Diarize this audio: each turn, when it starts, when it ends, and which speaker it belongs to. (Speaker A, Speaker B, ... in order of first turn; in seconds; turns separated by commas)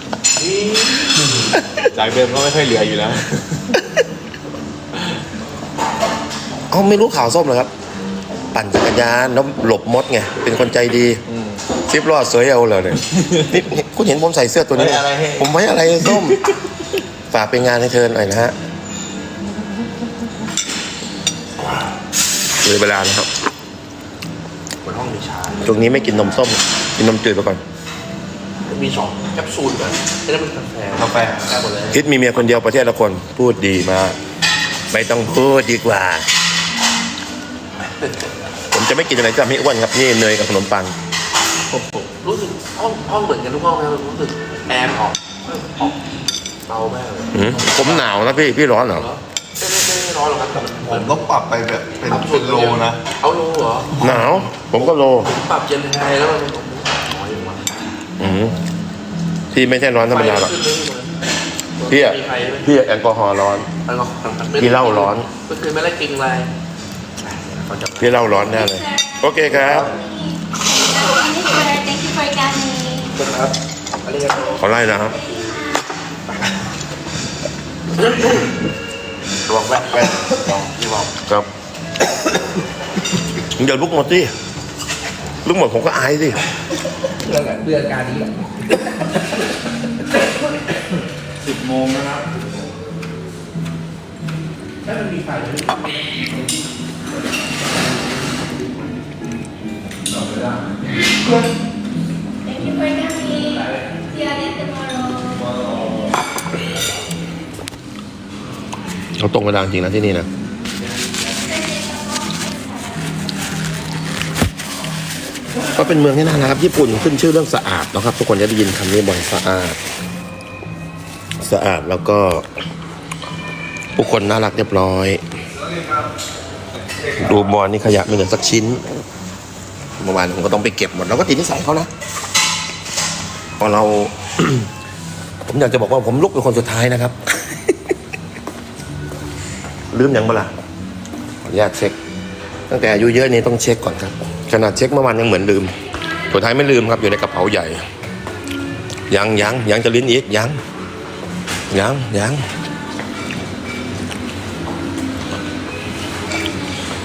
Speaker A: 0.4-1.5, Speaker B: 1.9-3.8, Speaker C: 6.7-7.7, Speaker C: 8.5-11.2, Speaker B: 11.3-11.6, Speaker C: 11.9-16.4, Speaker B: 14.7-16.5, Speaker C: 17.3-18.5, Speaker C: 22.6-23.3, Speaker A: 24.8-25.7, Speaker C: 25.6-27.6, Speaker A: 28.7-32.0, Speaker D: 30.9-31.6, Speaker C: 31.9-34.2, Speaker C: 34.9-36.3, Speaker A: 38.0-38.3, Speaker C: 38.7-41.0, Speaker B: 41.7-42.1, Speaker A: 42.1-46.0, Speaker A: 46.7-48.4, Speaker C: 47.3-49.1, Speaker A: 48.9-51.3, Speaker D: 50.8-53.0, Speaker A: 52.0-54.0, Speaker C: 54.0-55.3, Speaker A: 54.8-57.9, Speaker C: 58.2-58.6, Speaker C: 59.5-60.5, Speaker A: 60.1-61.1, Speaker A: 61.8-62.7, Speaker C: 61.9-63.7, Speaker A: 63.9-66.5, Speaker C: 64.6-65.3, Speaker A: 67.2-68.3, Speaker C: 68.0-69.9, Speaker E: 68.5-69.2, Speaker A: 69.5-70.0, Speaker E: 69.9-73.1, Speaker A: 73.1-74.9, Speaker C: 74.6-75.2, Speaker E: 75.1-75.9, Speaker A: 78.0-78.5, Speaker A: 79.5-81.1, Speaker C: 83.4-84.3, Speaker C: 85.4-86.4, Speaker A: 87.2-89.4, Speaker D: 91.4-92.6, Speaker A: 94.8-96.7, Speaker E: 102.5-105.5, Speaker A: 103.3-104.1, Speaker C: 109.2-110.3, Speaker E: 111.4-114.0, Speaker C: 115.6-119.8, Speaker C: 121.4-122.5, Speaker C: 124.0-125.2, Speaker C: 127.2-128.8, Speaker C: 130.0-131.9, Speaker C: 133.6-134.7, Speaker C: 135.5-137.5, Speaker C: 139.9-140.5, Speaker C: 141.4-141.9, Speaker C: 142.7-145.7, Speaker C: 146.3-147.8, Speaker C: 149.1-150.6, Speaker C: 151.7-152.5